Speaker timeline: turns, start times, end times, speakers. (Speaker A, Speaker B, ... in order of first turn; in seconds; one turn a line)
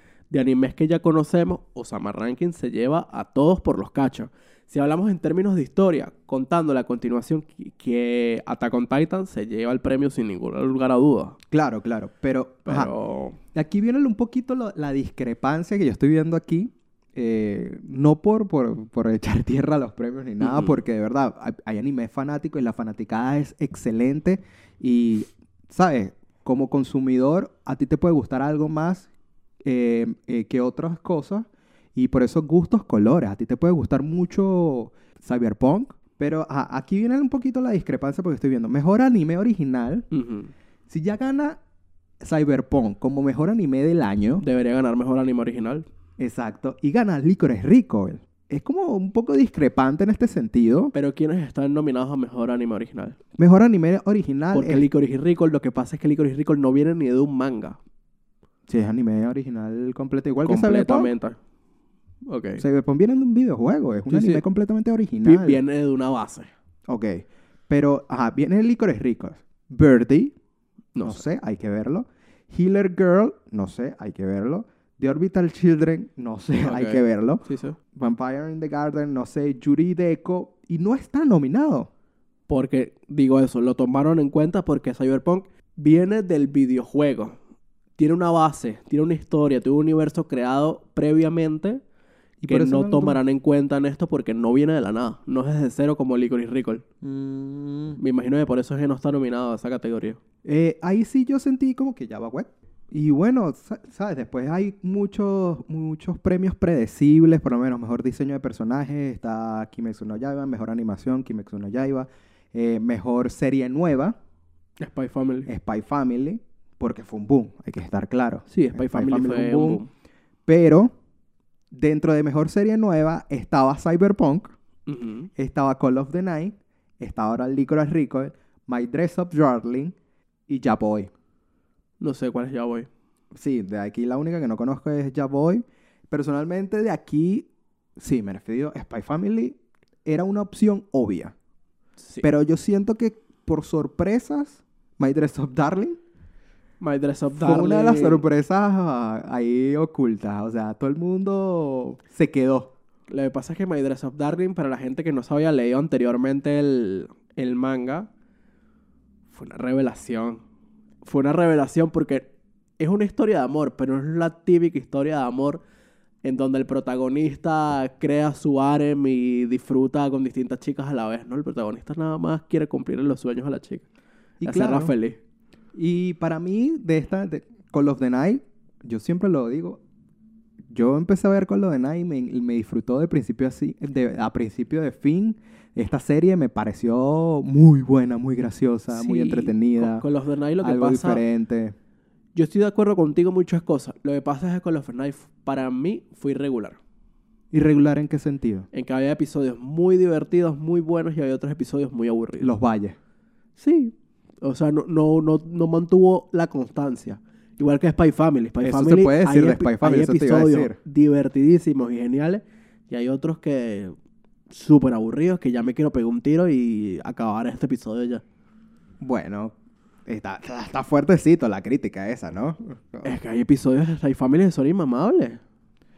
Speaker A: 0.3-11.4
Speaker B: 11.5-12.9
Speaker A: 12.7-13.4
Speaker B: 13.5-29.1
Speaker A: 20.4-20.8
Speaker B: 29.6-40.1
Speaker A: 40.1-40.5
Speaker B: 40.9-41.6
Speaker B: 42.2-44.4
Speaker A: 44.4-45.9
Speaker B: 46.2-50.9
Speaker A: 50.9-53.2
Speaker B: 53.4-54.9
Speaker A: 54.5-57.8
Speaker B: 58.7-61.1
Speaker A: 60.5-61.4
Speaker A: 62.3-62.6
Speaker B: 62.6-65.6
Speaker A: 64.1-64.4
Speaker A: 65.2-66.5
Speaker B: 66.9-70.3
Speaker A: 71.0-71.2
Speaker B: 71.0-81.9
Speaker A: 76.6-77.8
Speaker A: 82.5-87.4
Speaker A: 88.0-91.8
Speaker B: 92.4-93.2
Speaker A: 92.5-96.8
Speaker B: 97.0-98.0
Speaker A: 98.0-100.2
Speaker B: 100.4-114.2
Speaker A: 114.8-115.5
Speaker B: 115.5-119.8
Speaker A: 118.5-119.9
Speaker B: 120.5-120.9
Speaker B: 121.7-124.5
Speaker A: 124.9-125.3
Speaker B: 125.4-130.0
Speaker B: 130.5-131.1
Speaker A: 132.0-132.9
Speaker B: 133.3-137.5
Speaker B: 138.0-141.3
Speaker A: 142.0-142.2
Speaker B: 142.2-146.0
Speaker A: 146.8-148.2
Speaker B: 147.3-152.7
Speaker A: 153.1-158.1
Speaker A: 159.3-160.4
Speaker A: 161.0-162.3
Speaker A: 162.8-165.6
Speaker A: 166.2-173.9
Speaker B: 174.4-174.9
Speaker A: 174.4-175.2
Speaker B: 175.8-179.8
Speaker B: 180.7-190.1
Speaker A: 188.9-191.2
Speaker B: 190.6-191.8
Speaker A: 192.3-196.8
Speaker B: 197.5-198.7
Speaker A: 198.7-202.5
Speaker B: 202.4-203.0
Speaker A: 203.6-213.9
Speaker B: 208.6-210.8
Speaker A: 214.5-218.2
Speaker B: 219.0-219.5
Speaker B: 220.1-223.2
Speaker A: 223.0-225.4